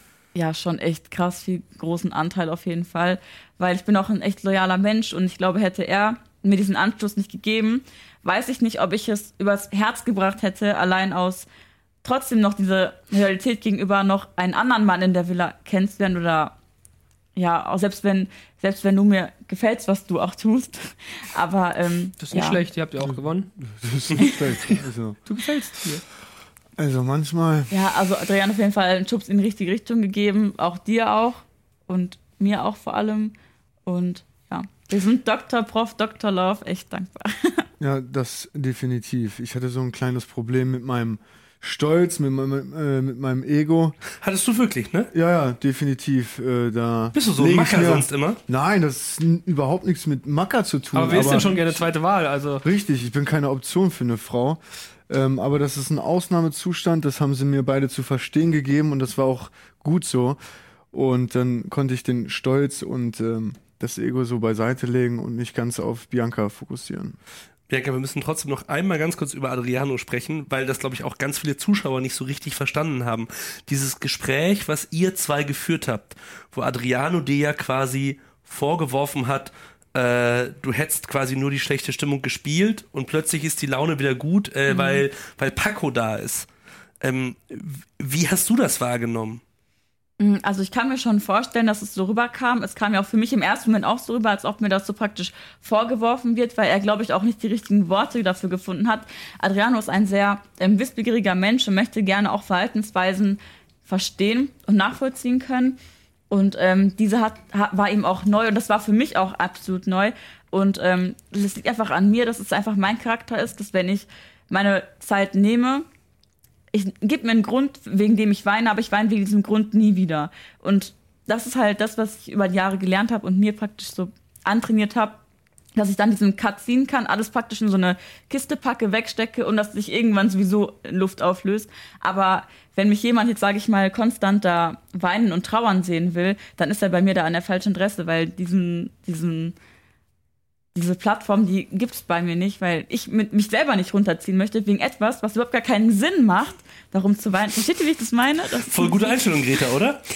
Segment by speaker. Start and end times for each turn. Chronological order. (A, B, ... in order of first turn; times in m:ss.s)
0:00.3-0:11.5 A
0:12.0-0:16.5 A
0:17.3-0:22.6 A
0:22.2-0:23.4 B
0:23.0-0:25.2 C
0:25.3-0:26.0 B
0:26.8-0:27.7 C
0:27.7-0:33.3 A
0:33.8-0:37.7 A
0:37.8-0:44.0 C
0:44.2-0:45.1 D
0:45.1-0:51.7 C
0:47.1-0:48.4 D
0:50.9-0:52.6 B
0:52.6-1:00.4 C
1:00.9-1:07.2 C
1:07.7-1:26.5 D
1:24.7-1:25.0 A
1:27.0-1:29.4 D
1:30.2-1:45.8 A
1:46.3-1:55.8 A
1:56.7-2:05.2 A
2:05.7-2:19.6 A
2:20.7-2:29.2 A
2:28.6-2:30.0 D